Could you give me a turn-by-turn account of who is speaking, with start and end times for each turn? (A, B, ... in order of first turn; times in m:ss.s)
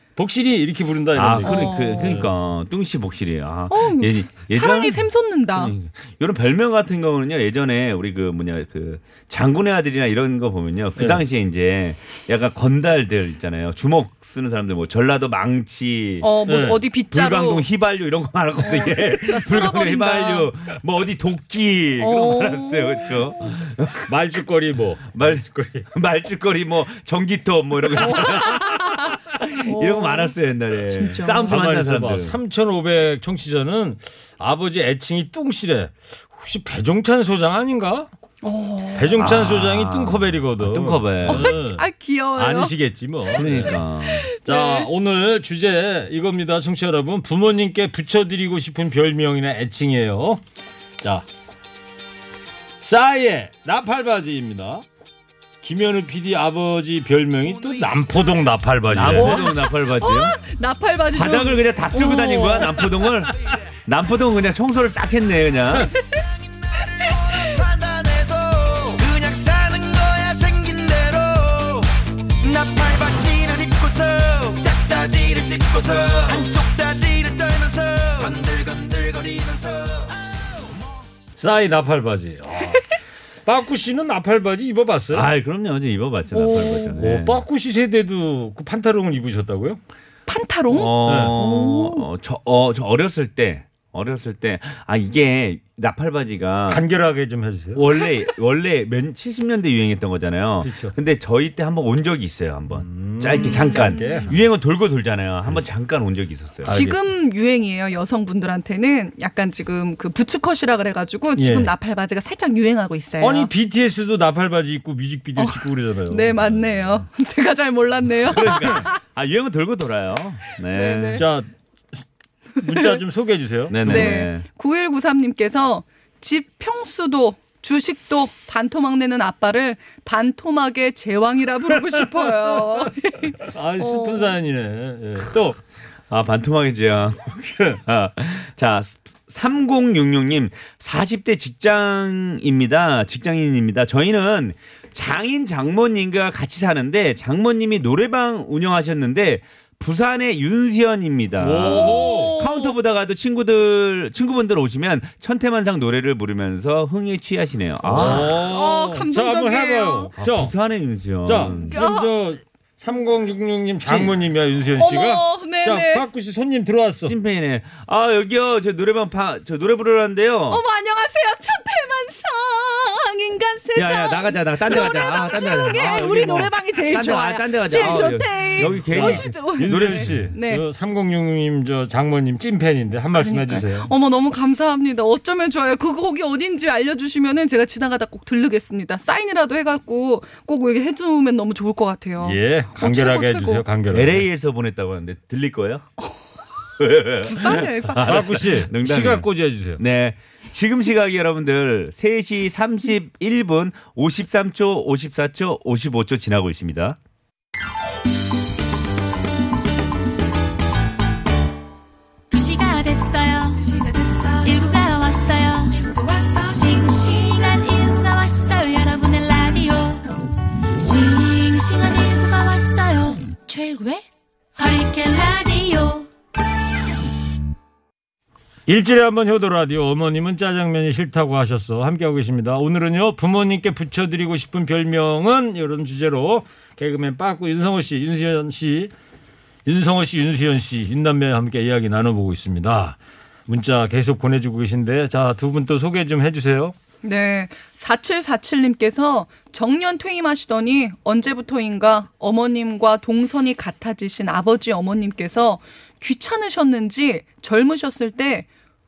0:00.2-0:02.3 A
0:01.1-0:16.3 B
0:01.4-0:02.2 C
0:03.7-0:05.7 C
0:16.2-0:17.6 C
0:16.5-0:16.8 A
0:17.1-0:24.1 B
0:18.6-0:20.5 C
0:22.0-0:23.5 C
0:24.1-0:25.9 A
0:25.1-0:32.4 B
0:28.1-0:29.0 C
0:29.6-0:31.5 C
0:31.4-0:38.1 A
0:38.4-0:39.3 C
0:38.9-0:43.8 A
0:39.2-0:41.6 B
0:41.3-0:42.7 C
0:43.3-0:44.3 B
0:44.0-0:44.9 C
0:44.4-0:50.4 A
0:52.8-0:54.8 A
0:55.6-0:59.5 A
0:57.5-0:58.4 D
0:58.9-1:00.4 B
0:59.0-1:02.9 C
1:01.1-1:03.3 B
1:03.8-1:05.9 B
1:06.7-1:11.9 D
1:12.4-1:20.2 D
1:21.4-1:22.8 A
1:23.4-1:25.3 A
1:25.1-1:27.4 B
1:26.3-1:27.0 C
1:27.0-1:29.8 A
1:30.3-1:32.0 C
1:30.7-1:36.8 B
1:31.0-1:31.3 A
1:36.7-1:37.8 A
1:37.7-1:46.7 B
1:40.6-1:40.9 A
1:42.7-1:44.3 A
1:43.4-1:44.3 C
1:46.6-1:47.0 A
1:46.6-1:53.5 C
1:51.4-1:51.7 A
1:53.2-1:56.6 A
1:55.4-1:59.0 C
1:58.2-2:01.2 B
2:00.7-2:01.2 C
2:01.2-2:01.5 A
2:02.6-2:04.3 A
2:03.7-2:04.4 B
2:03.8-2:14.3 C
2:11.7-2:12.9 A
2:13.5-2:15.6 A
2:16.1-2:38.4 B
2:31.4-2:32.4 A
2:31.6-2:32.7 C
2:37.9-2:40.5 A
2:38.0-2:40.1 C
2:40.2-2:41.8 B
2:41.2-2:47.1 A
2:41.5-2:42.1 C
2:43.8-2:44.2 B
2:44.8-2:46.0 C
2:47.0-2:50.6 B
2:50.5-3:00.6 C
2:53.7-3:00.3 B
2:57.7-3:03.9 A
3:03.1-3:13.6 C
3:12.2-3:14.2 A
3:13.9-3:15.8 B
3:16.8-3:27.0 B
3:17.2-3:18.2 C
3:17.9-3:19.8 A
3:32.3-3:40.2 E
3:40.8-3:44.0 E
3:44.6-3:46.1 E
3:48.7-3:58.9 A
3:59.6-4:06.7 A
4:07.0-4:18.5 C